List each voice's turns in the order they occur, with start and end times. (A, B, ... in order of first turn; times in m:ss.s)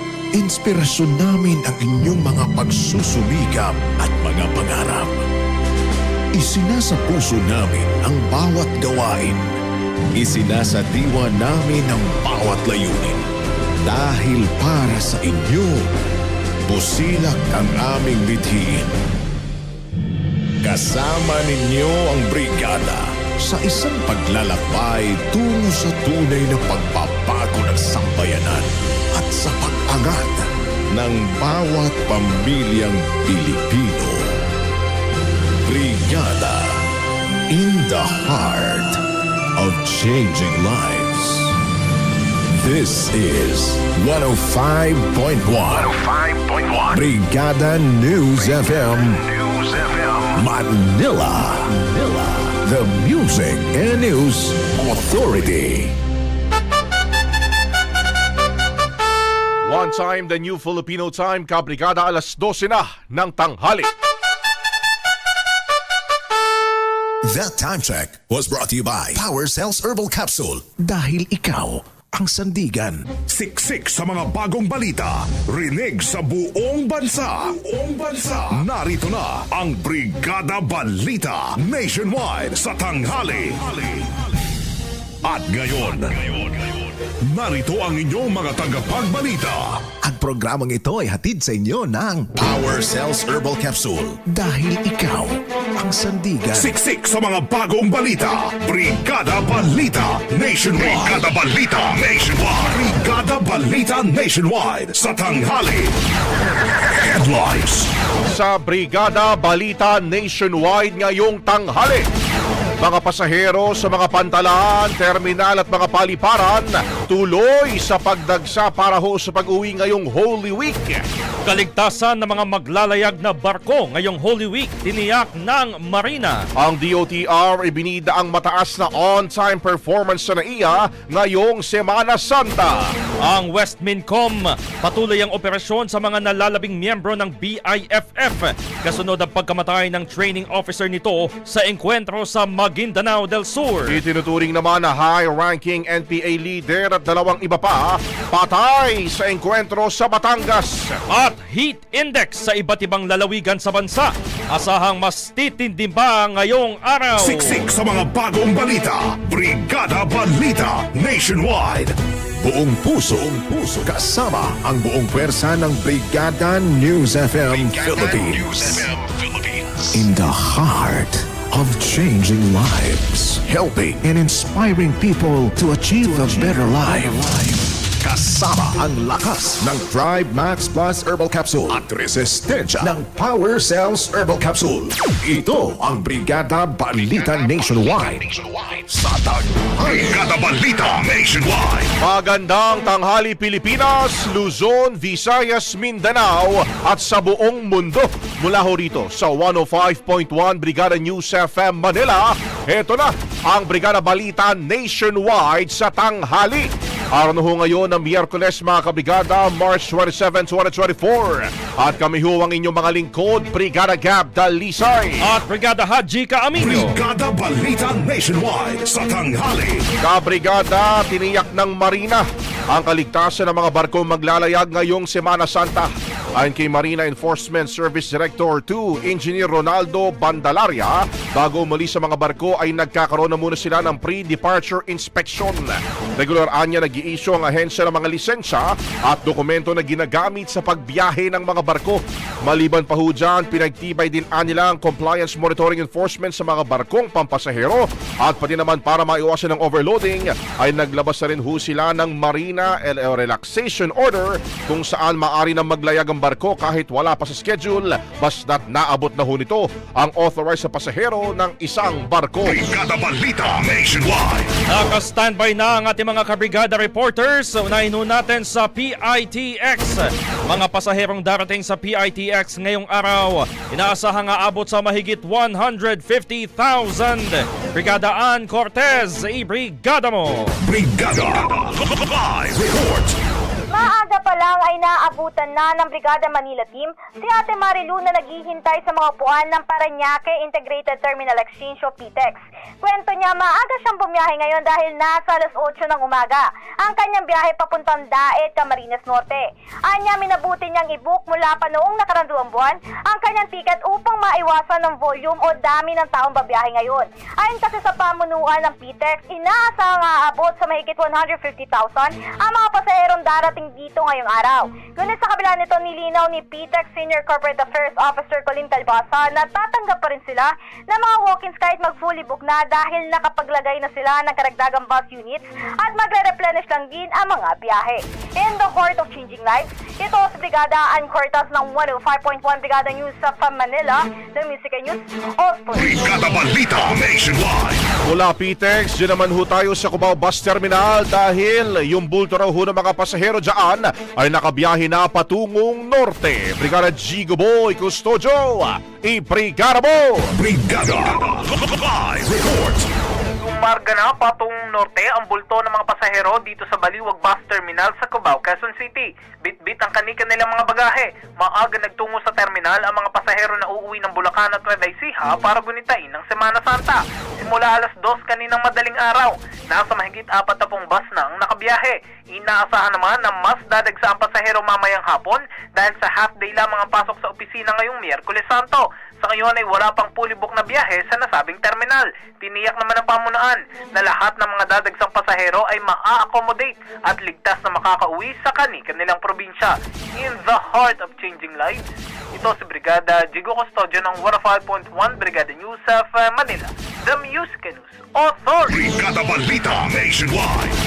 0:00.3-0:05.2 A
0:06.3-0:09.6 A
0:10.1-0:13.2 A
0:13.8-0:15.9 A
0:16.7-0:18.9 A
0:20.6-0:34.3 A
0:35.6-0:36.8 A
0:37.5-0:39.0 A
0:39.6-0:41.5 A
0:42.6-0:46.0 A
0:46.9-0:49.4 A
0:50.3-0:55.9 A
0:59.6-1:03.9 B
1:07.3-1:13.1 A
1:13.3-1:24.1 C
1:25.2-1:26.5 C
1:27.3-1:29.8 C
1:30.0-1:36.7 A
1:36.5-1:45.9 C
1:46.9-1:47.9 C
1:48.4-1:52.0 B
1:52.8-2:01.0 B
2:01.4-2:06.4 D
2:06.7-2:12.8 B
2:13.2-2:24.0 D
2:23.9-2:30.9 B
2:31.1-2:37.6 D
2:37.2-2:41.9 C
2:42.4-2:48.8 A
2:49.9-3:10.2 A
3:09.8-3:11.9 C
3:12.0-3:35.1 B
3:35.2-3:37.0 D
3:36.6-3:39.8 C
3:40.0-3:42.2 B
3:42.7-3:45.8 B
3:46.4-3:55.6 B
3:56.2-4:02.0 B
4:02.5-4:22.5 B
4:22.4-4:24.5 C
4:24.7-4:40.6 D
4:40.6-4:43.2 C
4:43.7-5:36.0 E
5:35.8-5:37.8 C
5:38.1-5:50.1 B
5:50.4-5:52.8 C
5:53.4-6:31.8 F
6:32.4-6:38.8 F
6:38.7-6:40.7 C